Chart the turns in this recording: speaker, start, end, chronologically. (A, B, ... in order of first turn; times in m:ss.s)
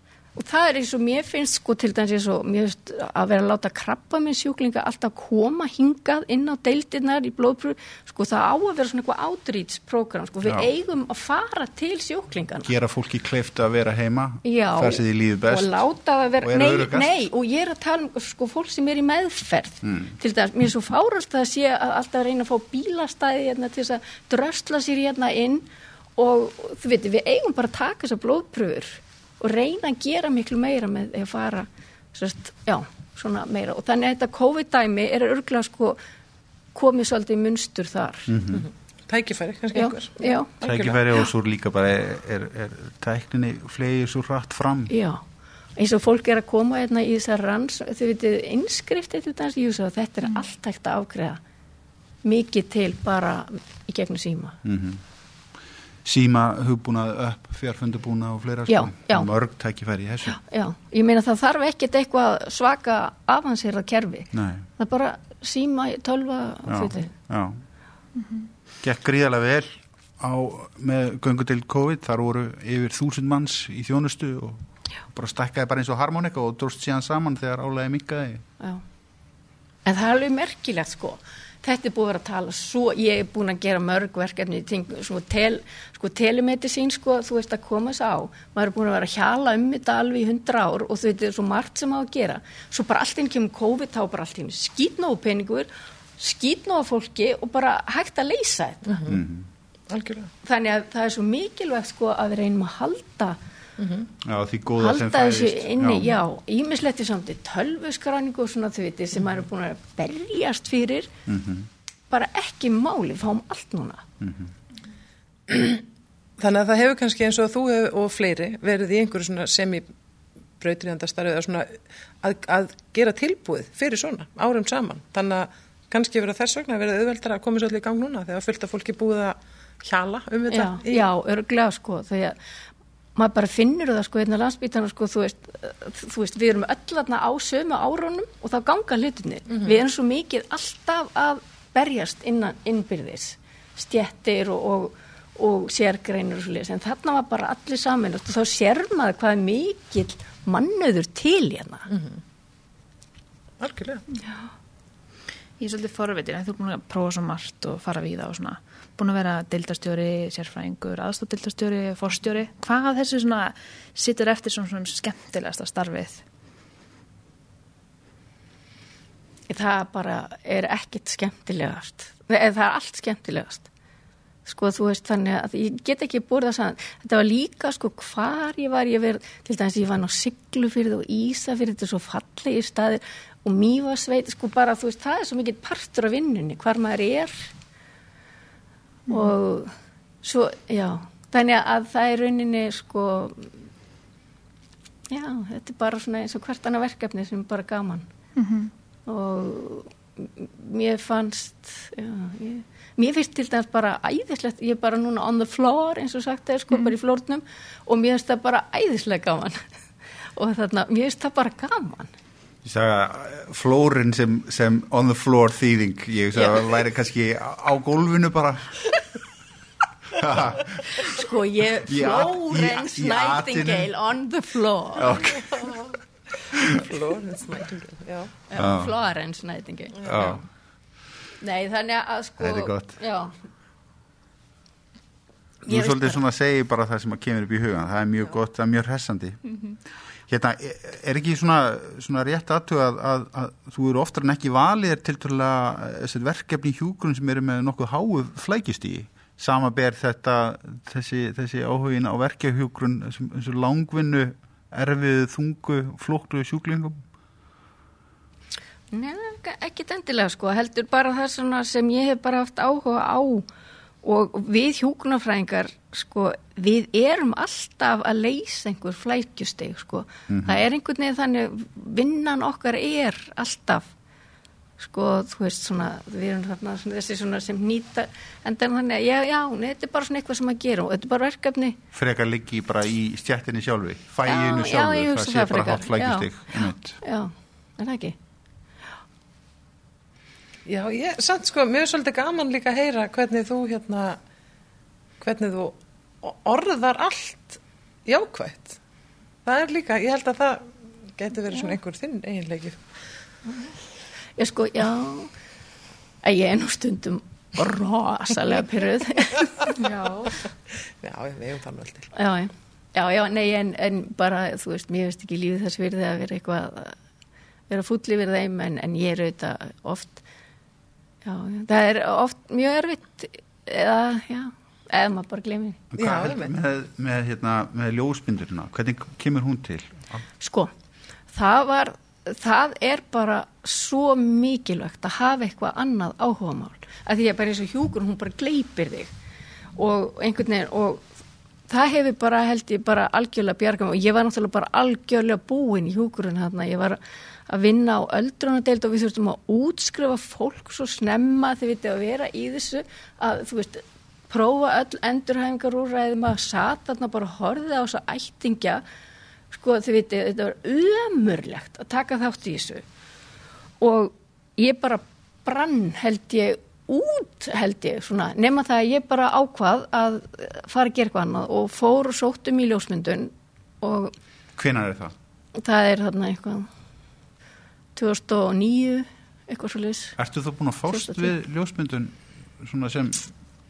0:00.4-0:12.7 A
0:12.6-0:15.8 B
0:14.4-0:25.6 A
0:16.4-0:17.1 B
0:19.8-0:20.1 B
0:26.2-0:36.0 A
0:36.7-0:38.3 A
0:38.3-0:38.6 B
0:38.5-0:41.0 C
0:39.7-0:40.5 A
0:40.6-0:44.9 B
0:44.9-0:45.2 A
0:45.8-0:51.4 A
0:52.2-0:54.6 A
0:54.6-0:55.0 B
0:56.0-1:00.4 B
0:58.7-0:59.3 A
1:00.3-1:07.1 A
1:04.3-1:04.7 B
1:06.7-1:07.6 B
1:08.2-1:08.5 D
1:08.8-1:18.4 B
1:19.8-1:39.0 A
1:38.9-1:39.2 C
1:39.1-1:39.5 B
1:39.9-1:40.3 C
1:40.4-1:43.4 A
1:43.8-1:44.1 C
1:44.2-1:46.1 B
1:44.8-1:51.1 A
1:51.3-1:51.7 B
1:52.1-1:54.0 A
1:54.2-1:54.5 B
1:55.5-1:55.8 C
1:56.4-1:59.9 C
2:00.6-2:11.0 C
2:10.5-2:12.4 A
2:13.2-2:31.9 A
2:19.5-2:19.8 C
2:31.9-2:32.2 C
2:33.6-2:34.0 C
2:35.6-2:46.2 D
2:49.5-2:53.7 A
2:54.4-3:07.5 A
3:09.1-3:13.6 A
3:15.1-3:18.1 A
3:18.4-3:18.7 D
3:19.1-3:29.6 A
3:30.4-3:32.1 A
3:32.6-3:38.8 B
3:36.3-3:36.6 A
3:40.1-3:41.1 B
3:40.9-3:45.4 A
3:41.9-3:43.9 B
3:45.0-3:45.5 B
3:45.3-3:46.0 C
3:46.5-3:48.3 C
3:46.5-3:46.8 B
3:48.5-3:50.4 A
3:48.6-3:48.9 B
3:50.0-3:50.4 B
3:51.4-3:53.3 A
3:52.4-3:52.9 B
3:55.6-3:56.2 A
3:55.7-3:59.4 B
4:00.3-4:17.0 B
4:18.9-4:23.4 A
4:24.0-4:33.9 A
4:30.3-4:30.6 B
4:34.8-4:41.8 A
4:41.9-4:47.0 B
4:44.2-4:48.2 A
4:50.6-4:54.2 C
4:55.2-4:58.8 C
4:59.4-5:02.8 C
5:04.4-5:05.3 A
5:06.2-5:09.9 A
5:09.8-5:10.2 D
5:10.8-5:12.1 C
5:12.1-5:17.0 A
5:17.7-5:20.2 A
5:21.2-5:25.8 A
5:25.9-5:30.2 B
5:26.0-5:26.5 C
5:30.4-5:30.7 A
5:31.3-5:39.1 A
5:39.8-5:41.0 A
5:41.7-5:58.8 A
5:59.5-6:02.8 A
6:03.8-6:14.1 A
6:14.6-6:15.1 B
6:15.6-6:16.7 A
6:18.0-6:20.2 A
6:20.2-6:23.3 B
6:20.9-6:21.3 A